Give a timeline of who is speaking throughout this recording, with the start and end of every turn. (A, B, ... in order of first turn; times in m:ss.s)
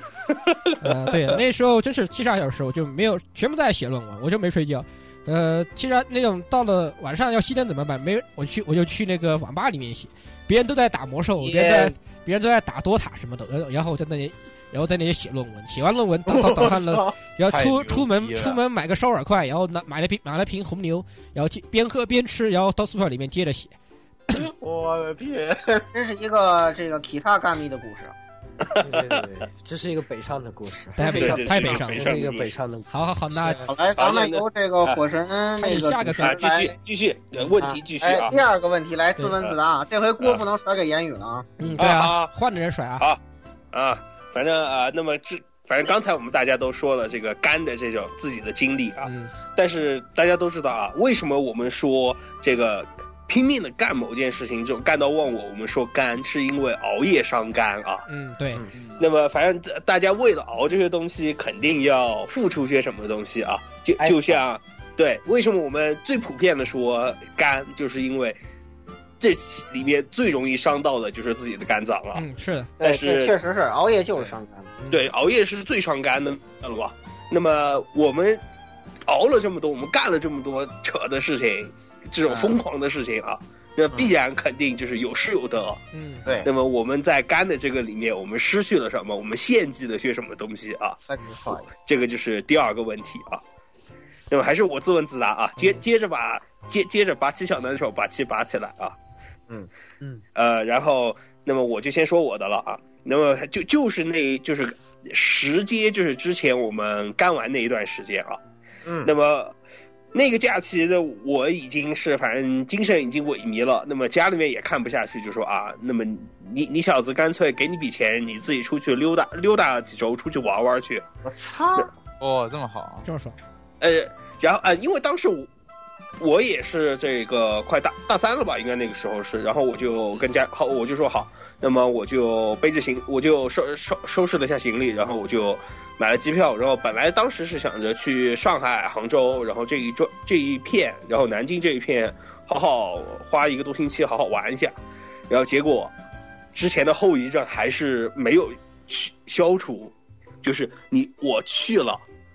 0:00.3-0:00.9 A
0:00.8-0:23.8 B
0:11.4-0:12.0 C
0:16.3-0:17.2 C
0:17.5-0:18.6 D
0:24.3-0:28.1 C
0:28.6-0:29.3 A
0:28.8-0:33.7 E
0:31.0-0:32.2 B
0:31.0-0:32.6 A
0:32.9-0:33.6 B
0:33.6-0:36.8 C
0:34.0-0:35.0 A
0:35.6-0:36.4 B
0:36.2-0:38.3 A
0:37.6-0:41.5 C
0:41.6-0:43.1 B
0:41.8-0:42.3 A
0:43.7-0:58.0 A
0:49.0-0:49.3 B
0:58.1-0:58.7 B
0:58.7-0:59.1 D
0:59.0-1:08.4 A
1:09.2-1:12.2 A
1:12.2-1:12.7 B
1:12.8-1:14.7 C
1:12.8-1:13.4 A
1:14.8-1:15.1 B
1:14.9-1:18.4 A
1:19.1-1:25.8 A
1:22.3-1:22.6 D
1:25.9-1:26.2 B
1:26.4-1:31.0 A
1:31.1-1:31.7 C
1:31.8-1:33.4 A
1:34.3-1:39.0 A
1:40.4-1:48.4 A
1:48.9-1:49.1 C
1:49.0-1:49.6 A
1:50.1-2:01.0 A
2:01.3-2:01.9 C
2:02.2-2:03.0 D
2:03.0-2:03.4 B
2:03.8-2:05.5 A
2:06.2-2:24.7 A
2:25.3-2:25.9 A
2:26.5-2:32.0 A